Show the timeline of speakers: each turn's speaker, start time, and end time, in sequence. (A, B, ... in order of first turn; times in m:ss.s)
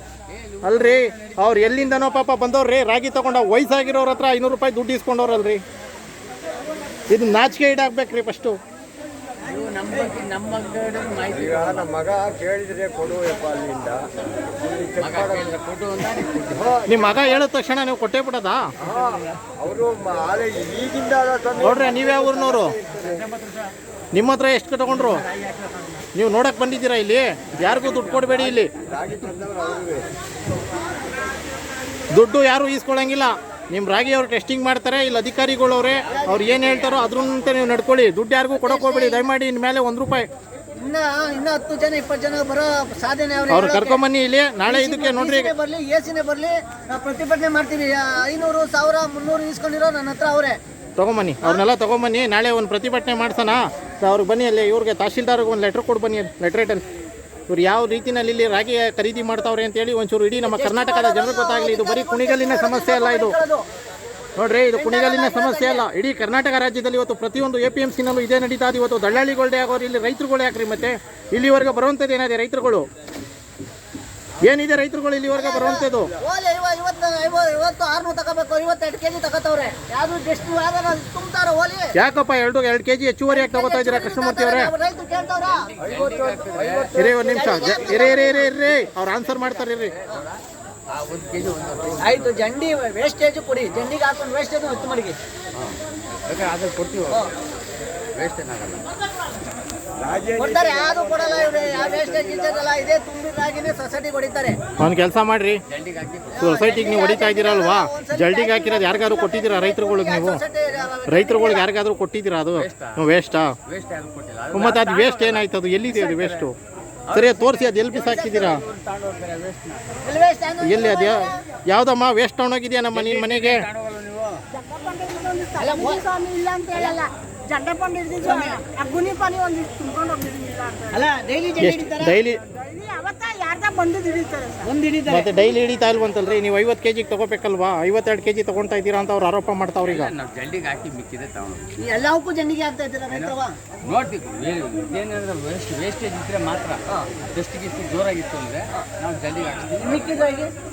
0:00.3-0:02.1 A
0:00.6-0:05.6 B
0:07.1-0:08.6 B
0:09.4-0:11.9 A
0:11.3-0:14.1 C
0:14.6-0:15.5 C
0:15.0-0:16.8 A
0:16.5-0:17.3 C
0:16.8-0:18.6 B
0:18.8-0:23.3 C
0:21.6-0:22.8 B
0:22.9-0:23.7 A
0:24.1-0:25.2 B
0:25.0-0:26.0 A
0:26.1-0:28.7 B
0:27.6-0:29.3 A
0:28.8-0:30.1 C
0:32.1-0:40.3 B
0:36.1-0:37.1 D
0:36.2-0:37.5 A
0:38.6-0:39.3 D
0:40.8-0:44.0 D
0:43.5-0:45.5 B
0:44.6-0:50.6 D
0:51.0-0:56.8 B
0:57.5-1:03.4 B
1:00.4-1:03.6 D
1:04.4-1:12.9 B
1:04.7-1:05.8 D
1:14.4-1:16.1 B
1:15.3-1:21.9 D
1:21.9-1:24.7 B
1:23.3-1:25.7 D
1:25.4-1:26.9 A
1:25.8-1:28.4 C
1:26.9-1:29.9 B
1:27.2-1:28.5 D
1:29.2-1:32.4 A
1:32.0-1:35.2 D
1:35.6-1:37.3 A
1:38.2-1:38.9 A
1:40.0-1:42.6 C
1:40.4-1:44.6 D
1:44.8-1:45.6 B
1:45.7-1:46.4 A
1:46.3-1:51.7 D
1:46.4-1:50.4 B
1:51.1-1:53.6 B
1:52.5-1:53.0 A
1:53.7-1:56.5 A
1:54.5-1:56.5 B
1:57.1-1:59.8 A
1:57.1-1:58.6 B
1:58.0-1:58.5 D
2:00.0-2:01.4 D
2:00.6-2:03.6 B
2:02.9-2:04.4 A
2:04.5-2:11.0 E
2:05.6-2:06.0 D
2:06.7-2:07.0 D
2:08.2-2:08.6 D
2:10.9-2:12.2 D
2:11.6-2:12.4 B
2:12.5-2:14.7 E
2:14.6-2:15.3 D
2:15.1-2:20.1 B
2:19.8-2:21.7 A
2:21.8-2:23.6 D
2:23.1-2:30.1 A
2:29.8-2:30.5 D